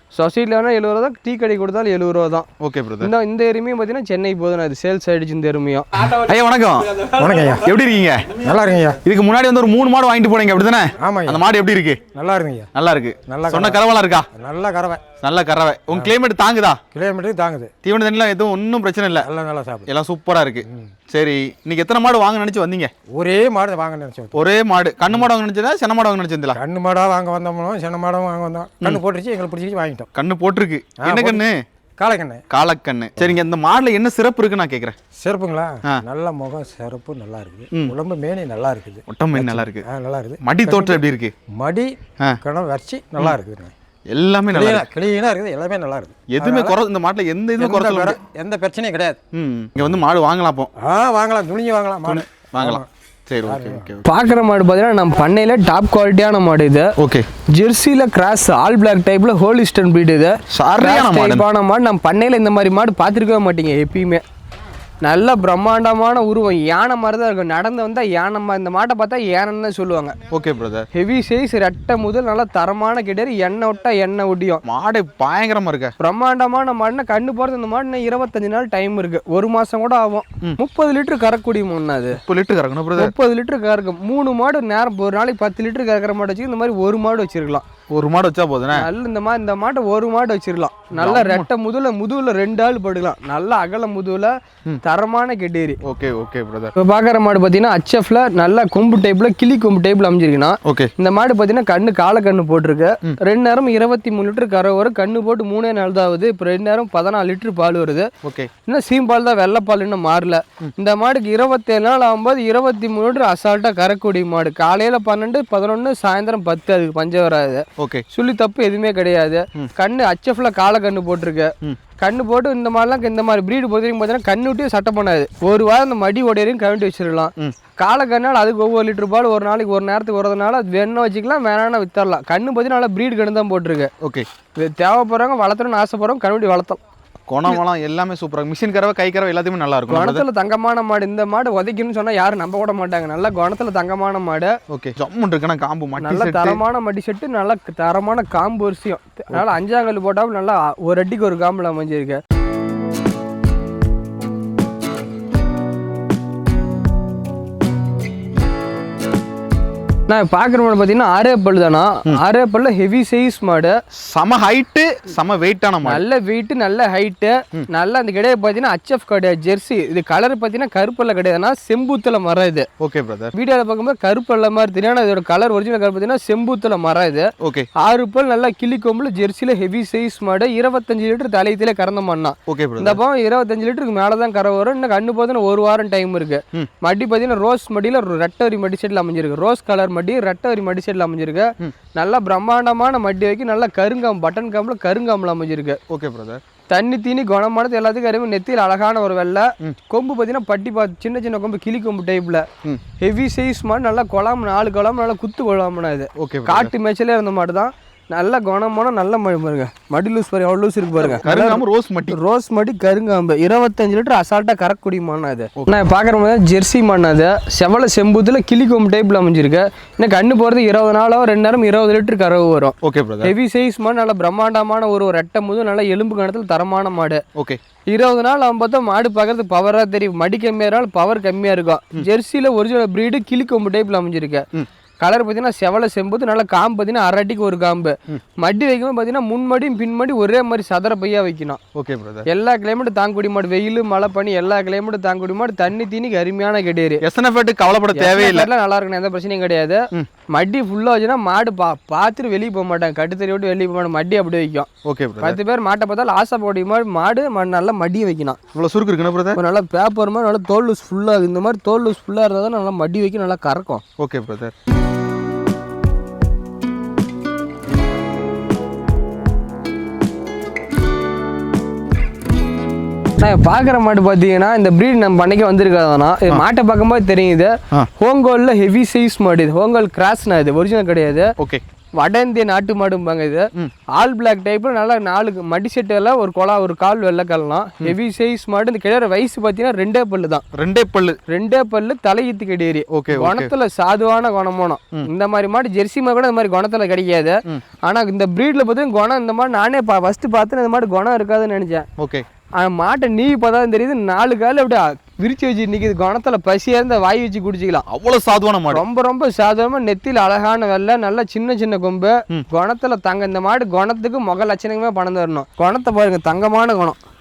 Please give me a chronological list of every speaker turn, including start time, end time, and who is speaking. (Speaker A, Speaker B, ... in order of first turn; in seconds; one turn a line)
Speaker A: 0.1-2.5
Speaker B: 2.6-3.1
Speaker A: 3.0-5.8
Speaker B: 6.1-8.3
Speaker C: 7.2-7.7
Speaker C: 8.4-9.0
Speaker B: 9.0-12.0
Speaker C: 11.0-11.4
Speaker C: 12.1-12.7
Speaker B: 12.7-14.3
Speaker C: 13.3-13.8
Speaker C: 14.3-15.0
Speaker B: 15.2-16.8
Speaker C: 16.9-17.7
Speaker B: 17.8-19.3
Speaker C: 19.2-19.9
Speaker B: 19.9-22.9
Speaker C: 23.1-24.3
Speaker B: 24.3-26.6
Speaker C: 26.5-30.1
Speaker B: 30.1-31.6
Speaker C: 31.0-31.4
Speaker C: 32.0-32.4
Speaker B: 32.5-35.0
Speaker C: 35.2-41.0
Speaker B: 39.1-39.9
Speaker B: 40.4-41.3
Speaker C: 41.5-43.7
Speaker B: 44.1-44.9
Speaker C: 44.5-46.8
Speaker B: 46.3-48.2
Speaker C: 47.6-49.2
Speaker B: 49.3-50.7
Speaker C: 50.8-52.9
Speaker B: 52.0-54.0
Speaker C: 53.5-53.9
Speaker A: 54.0-56.9
Speaker B: 57.0-57.2
Speaker A: 57.5-64.2
Speaker B: 60.5-61.4
Speaker A: 65.0-70.2
Speaker B: 70.3-70.8
Speaker A: 70.9-74.6
Speaker B: 74.6-75.9
Speaker A: 76.0-82.2
Speaker B: 82.2-83.1
Speaker A: 83.0-87.6
Speaker B: 87.9-88.8
Speaker A: 88.7-95.8
Speaker B: 90.9-91.5
Speaker B: 95.8-96.7
Speaker A: 96.8-108.1
Speaker B: 100.6-100.9
Speaker B: 108.2-108.5
Speaker A: 108.6-133.9
Speaker B: 117.8-118.0
Speaker B: 134.0-134.2
Speaker A: 134.6-136.8
Speaker B: 137.3-140.2
Speaker A: 139.9-144.5
Speaker B: 144.7-146.6
Speaker A: 146.0-152.2
Speaker A: 160.1-163.7
Speaker B: 164.0-166.0
Speaker A: 165.8-172.7
Speaker B: 172.8-173.3
Speaker A: 173.3-195.8
Speaker B: 177.4-177.7
Speaker B: 182.5-183.0
Speaker B: 195.9-196.4
Speaker A: 196.7-202.5
Speaker A: 203.0-227.2
Speaker B: 206.2-206.7
Speaker B: 211.0-212.2
Speaker B: 222.8-223.3
Speaker A: 227.9-234.4
Speaker A: 235.0-241.6
Speaker B: 241.7-242.2
Speaker A: 242.3-247.0
Speaker B: 247.0-248.5
Speaker A: 247.9-254.7
Speaker B: 254.8-255.4
Speaker A: 255.2-258.4
Speaker B: 258.5-259.4
Speaker A: 259.3-263.8
Speaker B: 264.0-264.5
Speaker A: 273.2-281.3
Speaker A: 282.0-290.4
Speaker B: 290.5-291.2
Speaker A: 291.3-301.9
Speaker B: 292.9-293.5
Speaker B: 302.0-302.2
Speaker A: 302.6-307.8
Speaker B: 307.9-308.8
Speaker A: 308.7-317.0